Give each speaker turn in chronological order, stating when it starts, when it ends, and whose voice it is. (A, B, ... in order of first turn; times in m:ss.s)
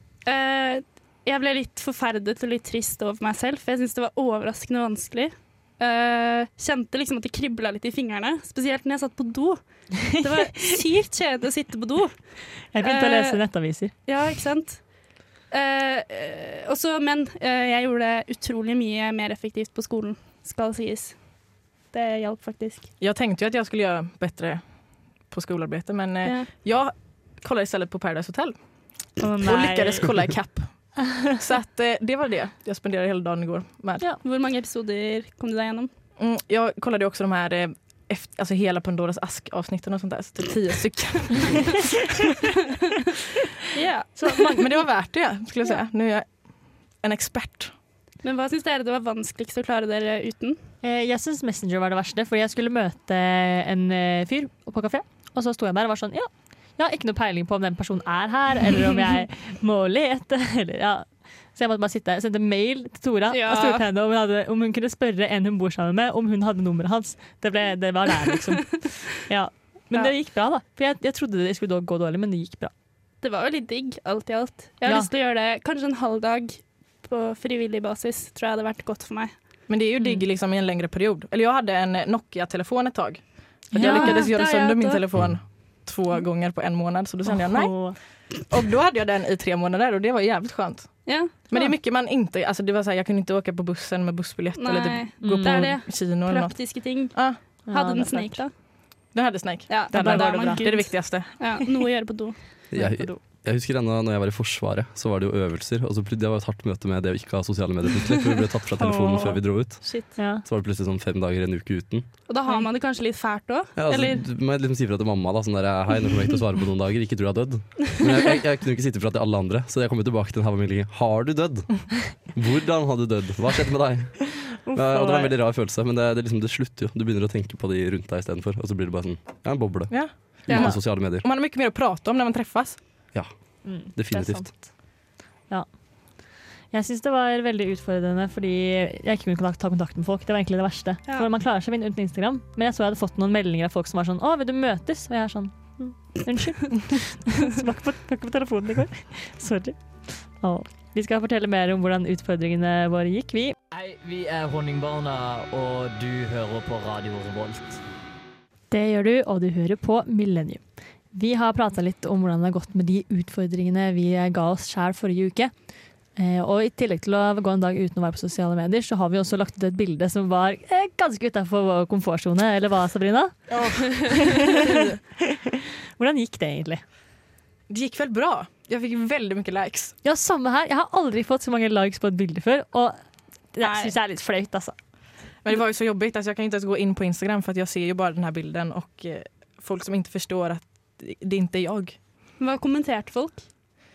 0:00.2-0:22.9 A
0:12.7-0:13.9 B
0:23.0-0:34.0 C
0:26.2-0:26.5 A
0:29.2-0:30.4 B
0:34.2-0:35.9 A
0:36.2-0:41.8 C
0:43.8-0:44.3 A
0:44.2-0:47.8 C
0:48.2-0:50.6 A
0:50.8-1:12.7 B
1:03.3-1:03.8 A
1:13.2-1:19.6 A
1:14.8-1:15.1 B
1:19.7-1:37.4 C
1:23.7-1:24.3 B
1:23.8-1:25.0 A
1:27.2-1:28.0 B
1:31.0-1:31.3 A
1:34.6-1:38.5 A
1:35.2-1:35.8 B
1:37.6-1:38.4 B
1:39.1-1:41.5 C
1:39.7-1:42.5 A
1:39.9-1:41.4 B
1:42.7-1:52.2 D
1:42.7-1:43.2 B
1:48.8-1:50.4 B
1:49.8-1:50.1 A
1:52.3-1:54.2 A
1:53.8-2:11.2 D
2:04.6-2:05.4 B
2:09.9-2:13.0 C
2:10.5-2:10.8 B
2:13.1-2:14.5 D
2:13.6-2:33.6 B
2:33.7-2:37.8 E
2:38.7-2:54.1 B
2:53.5-2:55.0 C
2:56.0-2:56.8 B
2:57.7-3:00.0 C
3:00.0-3:04.9 B
3:03.6-3:03.9 A
3:05.4-3:12.0 C
3:12.4-3:13.5 A